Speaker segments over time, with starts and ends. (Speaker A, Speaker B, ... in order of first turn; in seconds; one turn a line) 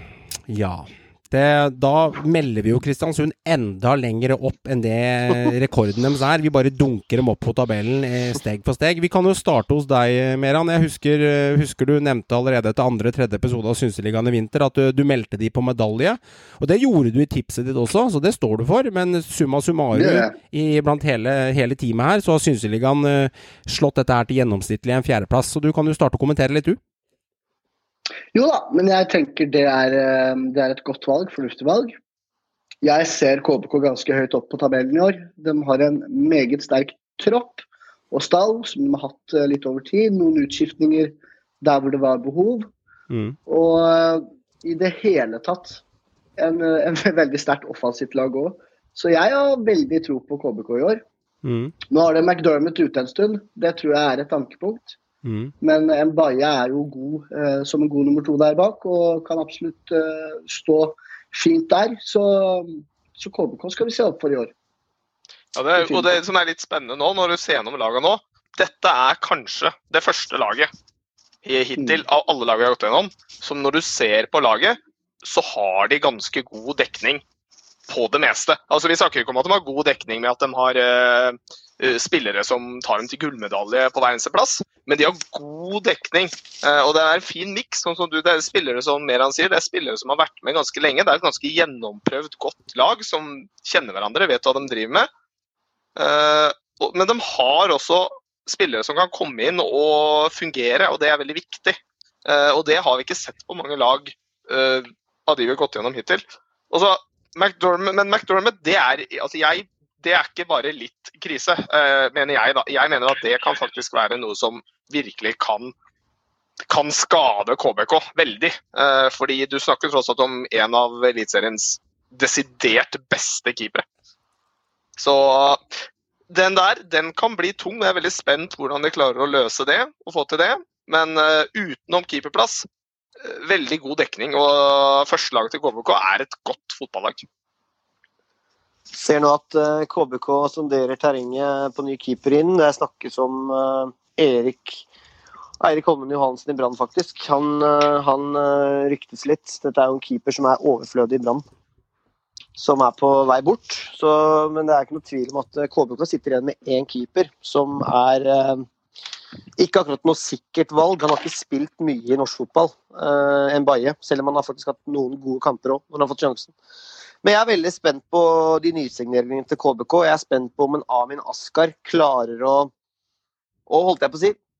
Speaker A: 0.5-26.8
Speaker B: 19.9-20.3
Speaker B: 28.3-31.9
Speaker B: 32.8-42.7
Speaker A: 43.1-43.4
Speaker B: 43.5-45.8
Speaker B: 46.4-51.0
Speaker A: 51.4-51.7
Speaker B: 51.9-55.0
Speaker A: 55.2-55.5
Speaker B: 55.6-64.5
Speaker C: 65.5-70.7
Speaker B: 65.8-66.1
Speaker C: 71.4-77.2
Speaker C: 77.9-95.1
Speaker C: 96.0-115.7
Speaker C: 116.7-123.8
Speaker C: 125.0-132.7
Speaker C: 133.2-137.2
Speaker D: 138.9-144.8
Speaker D: 145.6-151.4
Speaker D: 152.6-158.7
Speaker D: 159.6-166.5
Speaker D: 167.2-172.7
Speaker D: 173.7-174.4